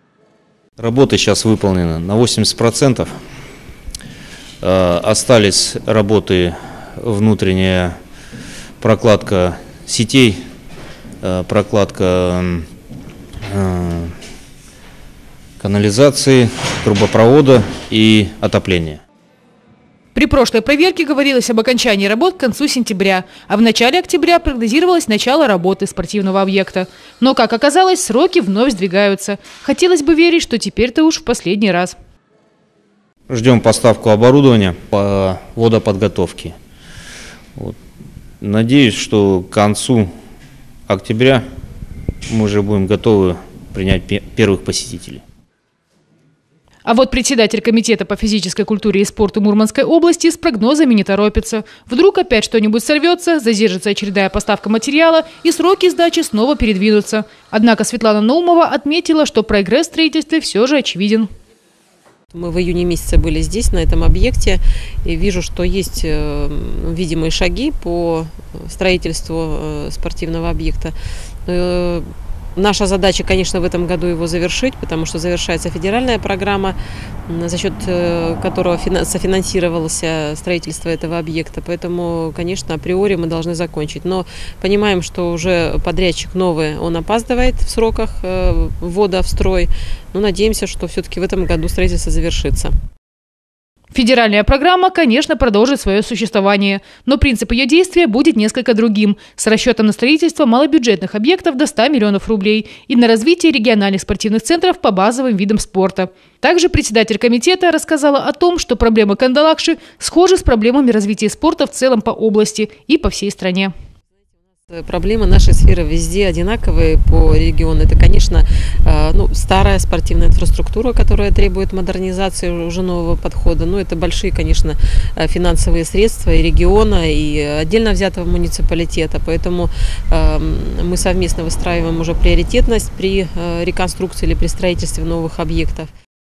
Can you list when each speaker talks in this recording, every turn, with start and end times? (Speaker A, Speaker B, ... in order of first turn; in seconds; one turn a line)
Speaker A: 0.8-3.1
Speaker A: 4.6-8.0
Speaker A: 8.8-10.4
Speaker A: 11.2-12.7
Speaker A: 13.5-14.1
Speaker A: 15.6-19.0
Speaker B: 20.1-32.0
Speaker A: 33.3-36.5
Speaker A: 38.4-40.1
Speaker A: 40.9-41.4
Speaker A: 42.3-45.2
Speaker B: 46.9-61.3
Speaker C: 62.3-70.9
Speaker C: 71.5-72.0
Speaker C: 72.6-92.7
Speaker B: 93.9-113.7
Speaker C: 114.7-135.9